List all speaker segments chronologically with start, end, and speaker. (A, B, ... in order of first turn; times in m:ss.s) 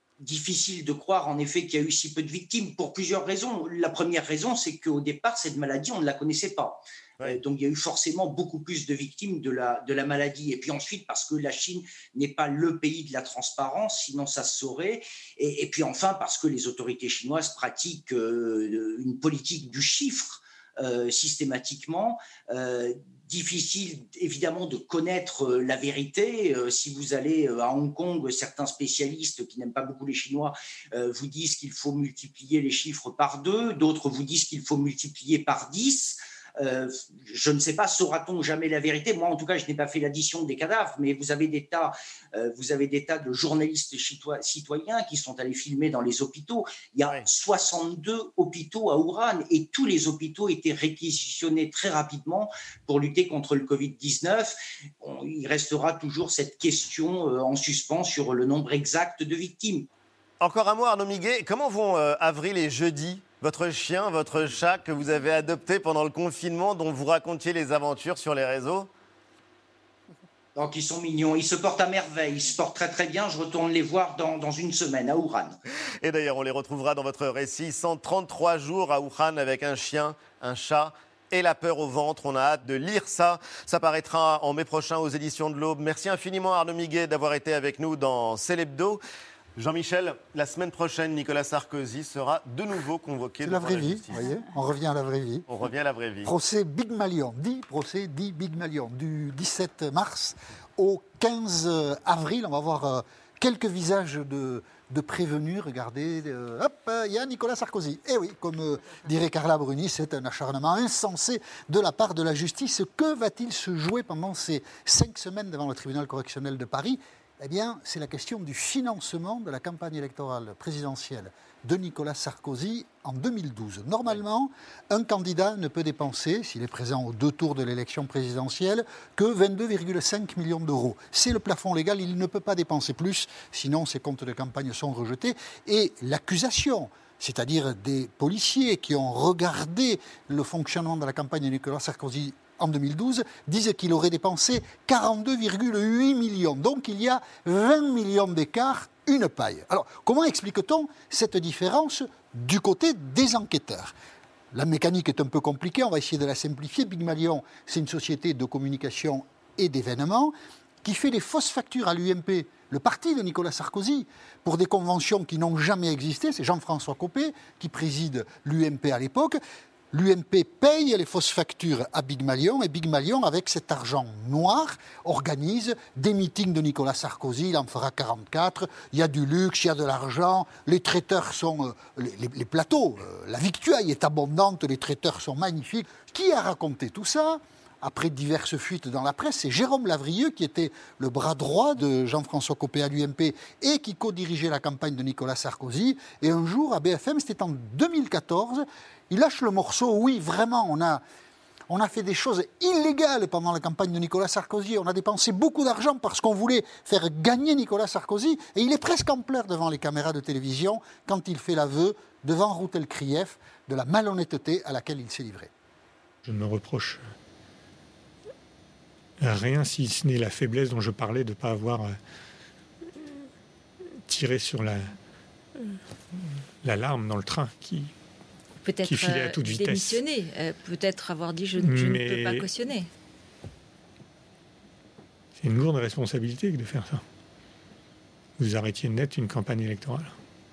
0:00.2-0:59.9 A
1:00.4-1:08.9 B
1:10.6-1:15.6 A
1:16.0-1:29.0 B
1:29.6-1:34.2 B
1:33.4-1:35.4 C
1:35.5-1:36.3 B
1:36.2-2:33.9 C
2:34.5-2:49.4 C
2:49.9-3:21.0 C
3:21.7-3:35.5 C
3:36.2-3:37.0 D
3:39.2-3:42.0 D
3:44.1-3:44.9 D
3:46.6-3:47.9 D
3:48.6-3:52.9 E
3:48.8-3:50.0 D
3:51.6-3:52.5 D
3:55.4-3:57.0 D
3:58.4-4:00.1 D